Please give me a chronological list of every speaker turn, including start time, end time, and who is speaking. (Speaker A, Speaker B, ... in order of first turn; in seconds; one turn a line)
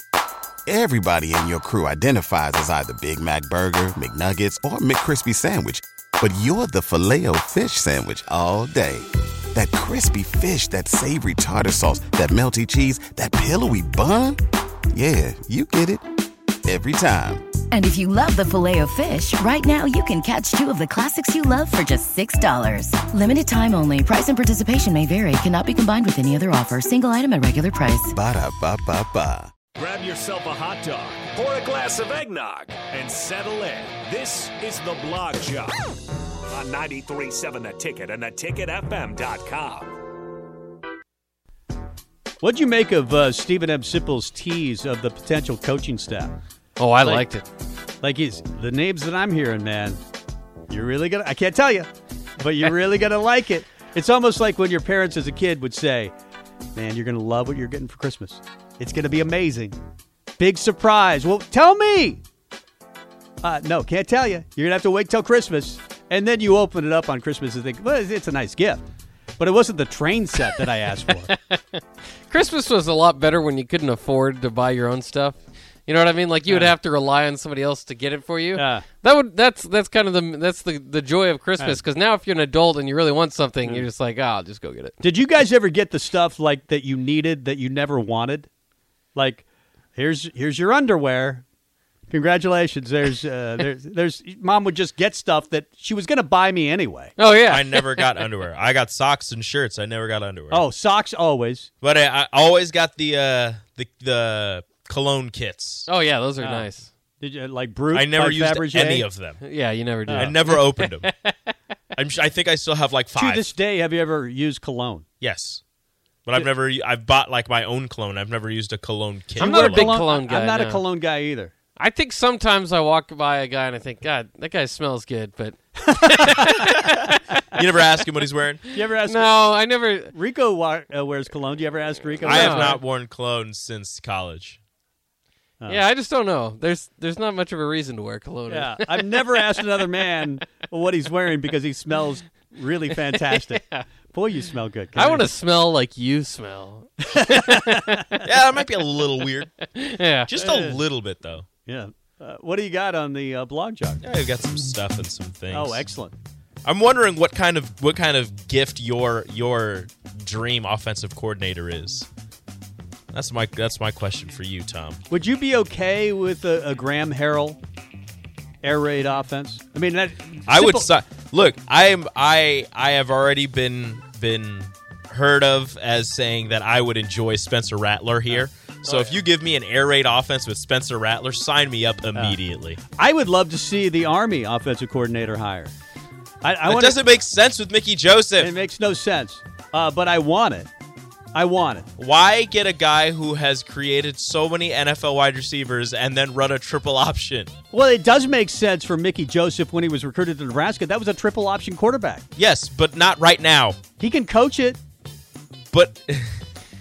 Speaker A: 0.7-14.4
Speaker A: 14.9-16.0
Speaker A: 16.7-17.5
Speaker B: 17.7-28.1
Speaker A: 28.1-29.5
Speaker C: 29.8-35.8
Speaker C: 36.5-39.9
Speaker D: 42.4-46.4
Speaker E: 46.8-47.5
Speaker D: 47.0-47.3
Speaker D: 48.0-50.0
Speaker D: 50.7-56.1
Speaker D: 56.8-59.8
Speaker D: 60.4-62.2
Speaker D: 63.4-68.8
Speaker D: 69.4-71.3
Speaker E: 71.3-84.9
Speaker D: 76.5-76.8
Speaker D: 78.5-78.9
Speaker D: 85.0-88.5
Speaker D: 89.2-91.5
Speaker D: 92.1-97.2
Speaker E: 97.2-98.1
Speaker F: 97.4-100.7
Speaker D: 100.5-101.7
Speaker F: 101.8-105.9
Speaker E: 105.9-106.9
Speaker D: 106.4-106.7
Speaker D: 107.2-109.1
Speaker F: 107.9-109.5
Speaker E: 109.4-111.5
Speaker D: 110.1-110.4
Speaker F: 110.1-111.1
Speaker F: 112.0-113.5
Speaker D: 113.2-115.1
Speaker F: 115.2-115.6
Speaker F: 116.3-120.0
Speaker D: 119.4-121.5
Speaker E: 119.4-120.8
Speaker E: 121.8-127.2
Speaker D: 126.2-126.9
Speaker F: 127.5-128.8
Speaker D: 128.8-129.4
Speaker E: 128.8-130.1
Speaker D: 130.1-132.8
Speaker F: 132.2-134.6
Speaker E: 132.3-132.8
Speaker D: 135.6-135.8
Speaker E: 135.7-139.9
Speaker D: 138.5-145.3
Speaker E: 142.9-143.9
Speaker E: 144.9-148.9
Speaker D: 147.2-148.0
Speaker F: 148.2-149.5
Speaker E: 149.6-150.3
Speaker F: 150.3-151.5
Speaker D: 150.3-150.8
Speaker D: 151.7-154.0
Speaker F: 154.0-155.8
Speaker D: 155.5-156.2
Speaker F: 156.7-162.1
Speaker F: 163.1-165.0
Speaker D: 165.1-167.6
Speaker D: 168.6-170.9
Speaker F: 170.5-182.8
Speaker D: 178.3-179.2
Speaker D: 183.0-185.7
Speaker D: 186.4-187.0
Speaker F: 186.7-188.5
Speaker D: 188.4-190.7
Speaker D: 191.3-191.9
Speaker F: 192.0-197.5
Speaker D: 197.7-202.2
Speaker F: 202.4-203.8
Speaker D: 204.0-204.8
Speaker F: 205.7-206.4